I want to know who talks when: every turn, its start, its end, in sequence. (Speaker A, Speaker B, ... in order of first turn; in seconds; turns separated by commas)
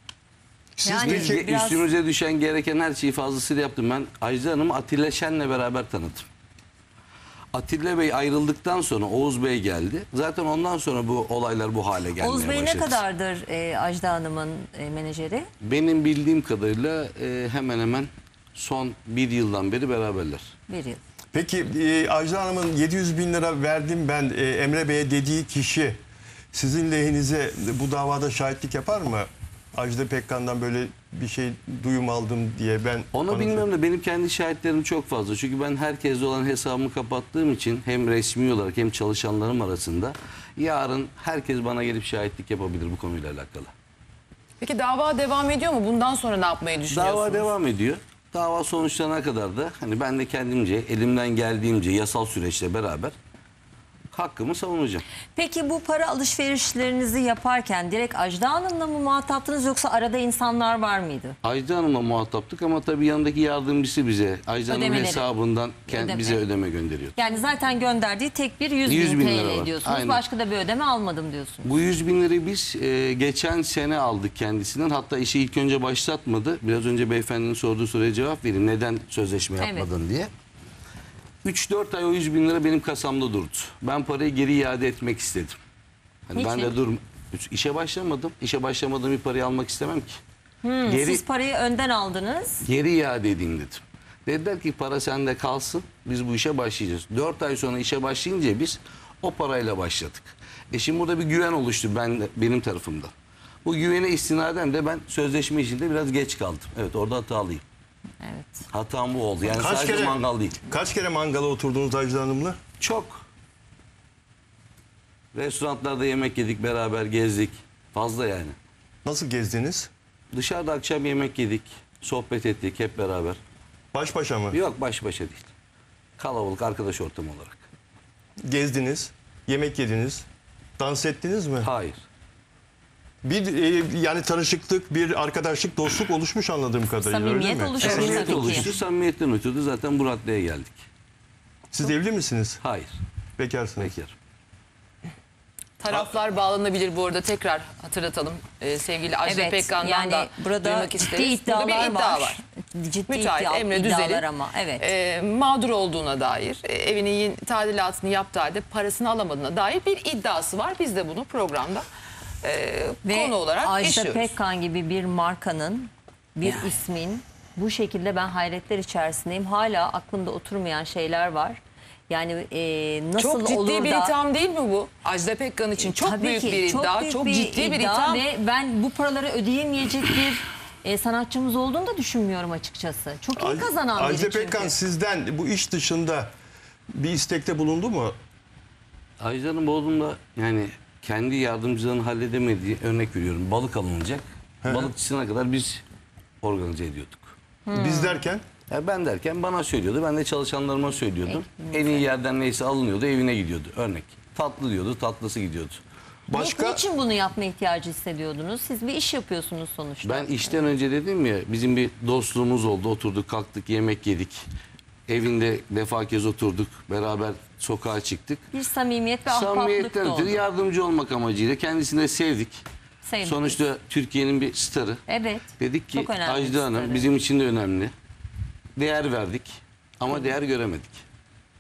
Speaker A: 0.8-1.5, Speaker B: 0.8-1.9, Speaker C: 1.1-6.3, Speaker C: 7.5-13.0, Speaker B: 12.2-15.5, Speaker C: 15.6-20.5, Speaker B: 20.7-21.0, Speaker A: 21.3-26.0, Speaker A: 26.5-33.7, Speaker C: 33.1-43.7, Speaker D: 44.6-47.5, Speaker C: 46.9-53.2, Speaker C: 54.1-55.0, Speaker B: 55.4-61.4, Speaker C: 61.4-67.2, Speaker B: 64.7-65.3, Speaker B: 65.9-66.4, Speaker B: 67.2-71.7, Speaker C: 68.8-70.2, Speaker C: 71.6-80.3, Speaker B: 79.6-79.9, Speaker C: 81.4-85.6, Speaker C: 86.3-90.2, Speaker B: 86.3-86.7, Speaker B: 90.6-92.7, Speaker C: 90.9-91.2, Speaker C: 92.6-103.1, Speaker C: 103.7-107.6, Speaker B: 108.2-108.7, Speaker C: 108.7-110.6, Speaker A: 109.5-112.6, Speaker C: 112.8-113.2, Speaker C: 115.3-118.6, Speaker A: 119.0-119.9, Speaker C: 120.3-123.4, Speaker A: 123.9-124.6, Speaker C: 124.5-125.5, Speaker C: 126.2-127.6, Speaker A: 128.4-130.3, Speaker A: 130.8-131.7, Speaker C: 131.6-132.0, Speaker A: 133.2-138.7, Speaker B: 137.1-138.7, Speaker C: 137.8-140.8, Speaker A: 141.7-142.6, Speaker C: 142.6-143.0, Speaker A: 143.4-143.9, Speaker C: 143.8-144.2, Speaker D: 145.8-152.4, Speaker B: 149.2-154.8, Speaker D: 153.1-154.2, Speaker D: 154.8-161.9, Speaker D: 162.4-164.3, Speaker B: 163.1-174.1, Speaker D: 173.2-178.2, Speaker B: 175.8-184.7, Speaker A: 183.4-186.3, Speaker A: 186.9-188.2, Speaker C: 189.2-195.8, Speaker A: 194.6-194.9, Speaker C: 196.4-197.3, Speaker B: 197.7-198.2, Speaker A: 197.7-198.4, Speaker C: 198.7-205.8, Speaker B: 201.2-202.2, Speaker A: 206.3-206.8, Speaker B: 206.3-210.7, Speaker C: 210.0-214.4, Speaker C: 215.1-218.4, Speaker B: 218.5-220.4, Speaker C: 219.3-222.6, Speaker B: 223.0-223.6, Speaker C: 223.2-225.0, Speaker B: 225.1-227.1, Speaker C: 225.6-227.9, Speaker C: 228.8-231.0